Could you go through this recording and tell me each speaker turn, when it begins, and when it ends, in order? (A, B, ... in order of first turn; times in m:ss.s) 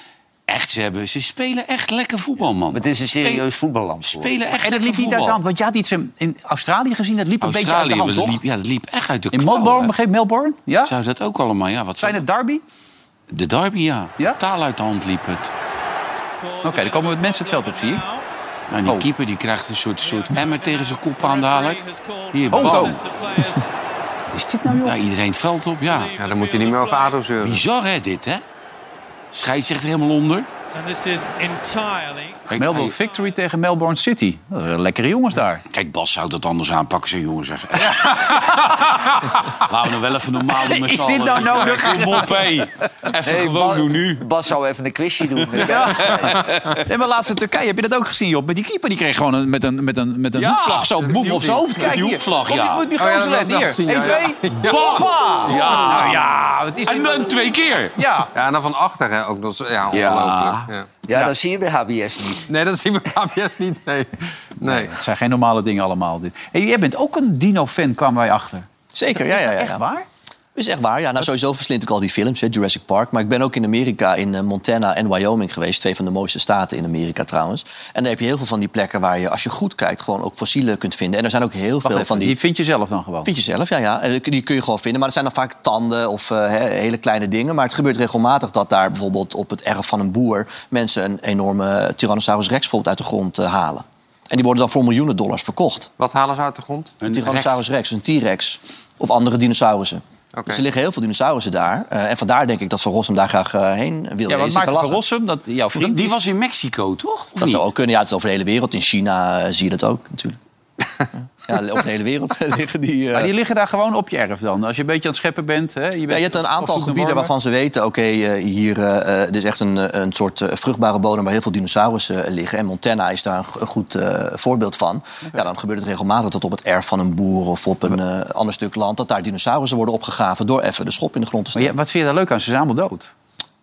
0:00.5-0:03.4 A
0:02.7-0:04.3 B
0:04.0-0:05.4 A
0:04.6-0:08.4 C
0:07.4-0:09.9 A
0:09.3-0:10.9 C
0:10.8-0:12.2 A
0:12.0-0:12.6 C
0:13.3-0:15.5 A
0:16.4-0:18.2 D
0:16.6-0:18.0 C
0:18.7-0:23.0 A
0:20.0-0:23.7 D
0:22.5-0:22.9 C
0:24.3-0:25.0 C
0:24.8-0:26.1 A
0:25.8-0:27.3 D
0:26.1-0:27.6 E
0:27.4-0:28.4 A
0:29.3-0:30.5 A
0:30.7-0:32.4 D
0:32.5-0:33.0 A
0:32.5-0:35.6 C
0:33.0-0:33.3 D
0:35.7-0:44.2 A
0:40.5-0:42.5 C
0:43.2-0:46.4 B
0:45.6-0:57.3 C
0:50.3-0:53.0 A
0:53.0-0:56.2 E
0:54.6-0:58.0 A
0:58.0-0:58.3 C
0:58.3-1:00.9 E
0:59.9-1:00.7 A
1:01.1-1:02.4 B
1:02.5-1:04.9 E
1:04.6-1:10.0 C
1:08.9-1:09.8 F
1:10.5-1:22.4 F
1:21.8-1:23.3 C
1:23.2-1:35.9 F
1:36.0-1:37.0 E
1:37.0-1:37.5 A
1:37.0-1:45.0 F
1:40.3-1:40.6 E
1:44.3-1:46.2 C
1:45.7-1:47.6 A
1:47.4-1:50.4 F
1:51.4-1:53.3 F
1:53.1-1:57.3 C
1:56.1-2:11.7 F
2:11.5-2:13.1 C